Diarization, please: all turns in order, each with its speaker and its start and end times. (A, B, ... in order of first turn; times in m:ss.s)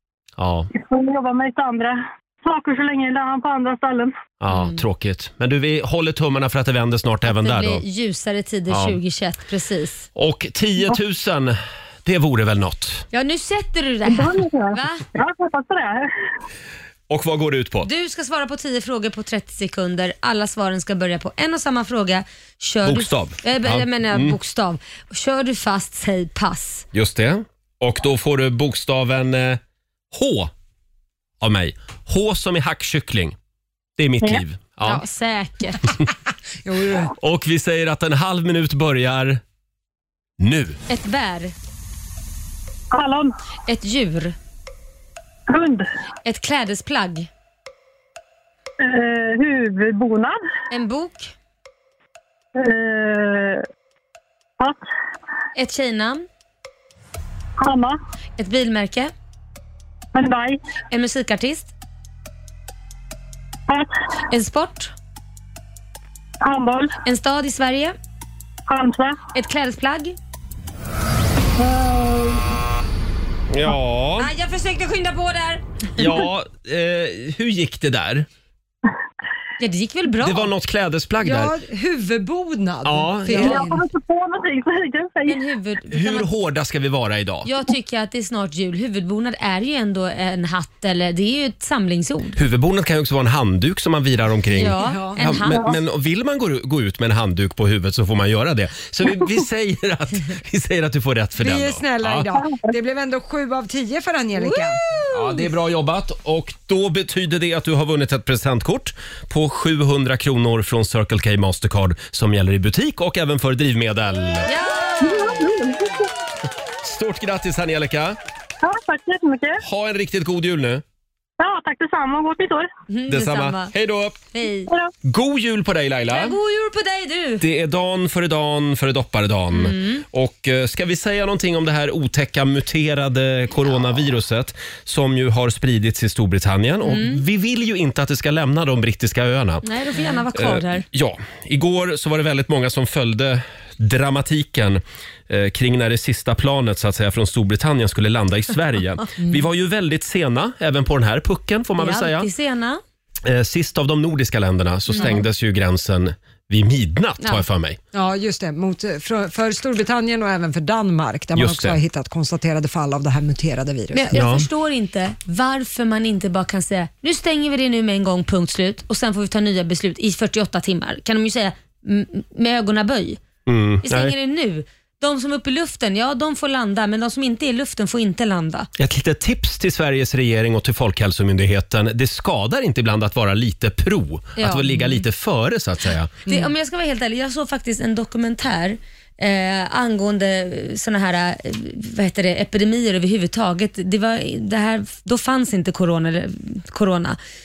0:00.4-0:00.7 A
0:00.7-0:04.1 B
0:04.4-0:07.8 A
0:04.5-0:04.8 C
0:07.3-0:10.1 C
0:08.7-0:09.0 A
0:10.2-0:13.1 A
0:13.1-0:15.0 C
0:14.0-0:16.1 B
0:17.1-0:17.9 A
0:17.8-0:26.9 C
0:22.8-0:24.4 A
0:26.9-0:29.6 A
0:30.1-0:30.5 A
0:31.4-0:33.4 A
0:34.0-0:35.0 A
0:34.8-0:35.9 C
0:36.6-0:37.1 D
0:37.2-0:39.4 A
0:40.4-0:40.8 A
0:40.9-0:41.5 C
0:42.9-0:43.3 B
0:43.7-0:44.4 C
0:45.5-0:45.8 B
0:46.2-0:47.3 C
0:48.8-0:50.4 B
0:50.7-0:51.3 C
0:52.6-0:53.6 B
0:55.6-0:56.3 C
0:57.6-0:58.0 B
0:58.4-0:59.1 C
1:00.2-1:00.6 B
1:00.9-1:01.7 C
1:04.3-1:04.9 C
1:06.4-1:07.0 B
1:07.0-1:08.0 C
1:08.7-1:09.2 B
1:09.3-1:10.2 C
1:11.6-1:12.4 B
1:13.5-1:14.3 A
1:14.2-1:15.6 C
1:16.0-1:18.3 A
1:19.6-1:20.5 C
1:20.2-1:21.5 A
1:21.2-1:23.8 D
1:22.8-1:23.6 A
1:23.3-1:23.6 C
1:23.4-1:25.5 B
1:25.3-1:26.3 C
1:25.9-1:27.5 A
1:27.5-1:32.4 C
1:32.4-1:42.3 A
1:34.5-1:35.8 C
1:34.8-1:35.2 D
1:41.4-1:44.8 D
1:44.4-1:45.5 C
1:45.1-1:54.5 A
1:54.5-1:55.4 C
1:55.0-1:56.1 B
1:56.8-1:58.2 A
1:58.6-1:59.6 B
1:59.6-2:00.8 A
2:01.4-2:02.7 B
2:02.9-2:03.7 C
2:03.1-2:04.2 A
2:04.3-2:04.7 C
2:05.0-2:06.4 A
2:06.1-2:07.4 C
2:07.4-2:19.7 A
2:09.5-2:10.0 C
2:16.8-2:17.2 C
2:19.6-2:20.8 C
2:20.3-2:32.3 A
2:31.8-2:32.8 C
2:33.2-2:37.8 A
2:34.9-2:35.2 C
2:37.9-2:44.1 D
2:41.4-2:41.8 A
2:43.9-2:53.2 C
2:44.1-2:44.5 A
2:53.5-2:54.1 A
2:53.8-2:58.7 C
2:58.8-3:06.1 A
3:04.4-3:05.0 C
3:06.3-3:17.2 C